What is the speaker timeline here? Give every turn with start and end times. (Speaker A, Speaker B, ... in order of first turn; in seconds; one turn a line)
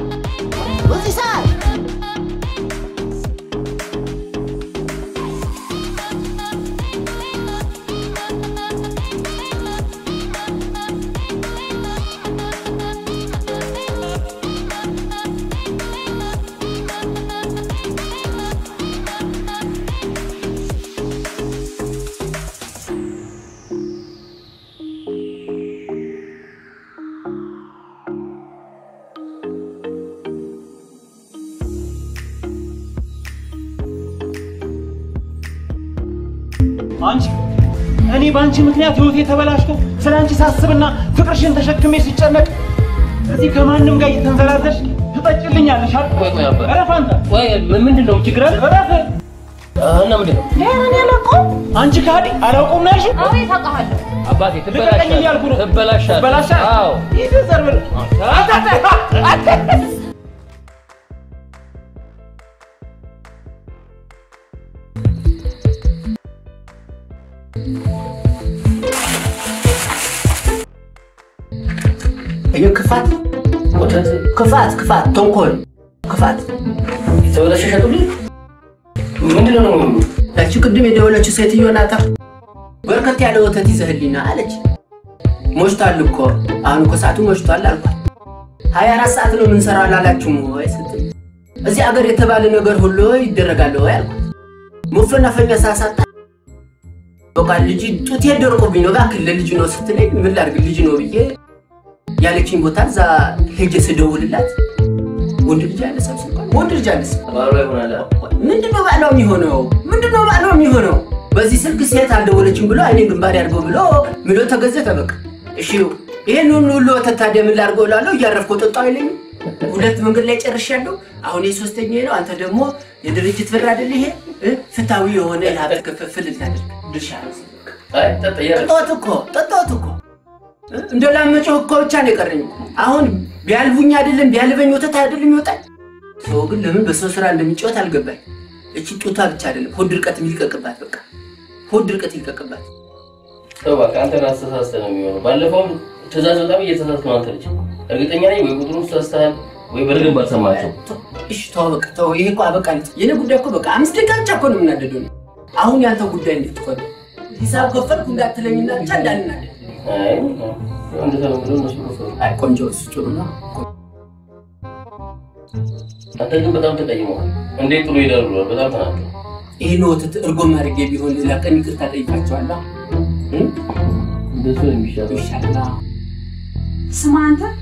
Speaker A: 0.6-1.5
Speaker B: 38.1-42.4
Speaker B: 43.3-47.2
Speaker C: 46.0-48.6
Speaker B: 48.7-49.0
Speaker C: 49.8-50.5
Speaker B: 51.7-53.3
Speaker C: 54.2-57.1
Speaker B: 54.8-55.4
Speaker B: 56.2-56.6
Speaker B: 57.1-57.8
Speaker C: 57.9-58.6
Speaker A: 72.5-73.1
Speaker C: 73.7-74.2
Speaker A: 74.3-76.5
Speaker C: 77.2-78.1
Speaker C: 79.2-80.1
Speaker A: 80.3-82.0
Speaker A: 82.9-84.6
Speaker A: 85.5-88.0
Speaker A: 88.7-91.0
Speaker A: 91.6-94.2
Speaker A: 94.9-96.0
Speaker A: 97.3-101.3
Speaker A: 102.2-104.5
Speaker A: 105.4-107.2
Speaker C: 107.3-108.0
Speaker A: 108.0-127.8
Speaker C: 127.9-128.9
Speaker A: 128.6-130.0
Speaker A: 130.7-135.6
Speaker A: 136.2-138.2
Speaker A: 138.7-141.0
Speaker A: 141.7-142.6
Speaker C: 143.6-150.7
Speaker A: 150.3-159.5
Speaker C: 159.8-162.2
Speaker A: 162.2-163.5
Speaker C: 166.2-169.1
Speaker A: 169.6-172.6
Speaker C: 174.3-175.2
Speaker A: 175.1-175.7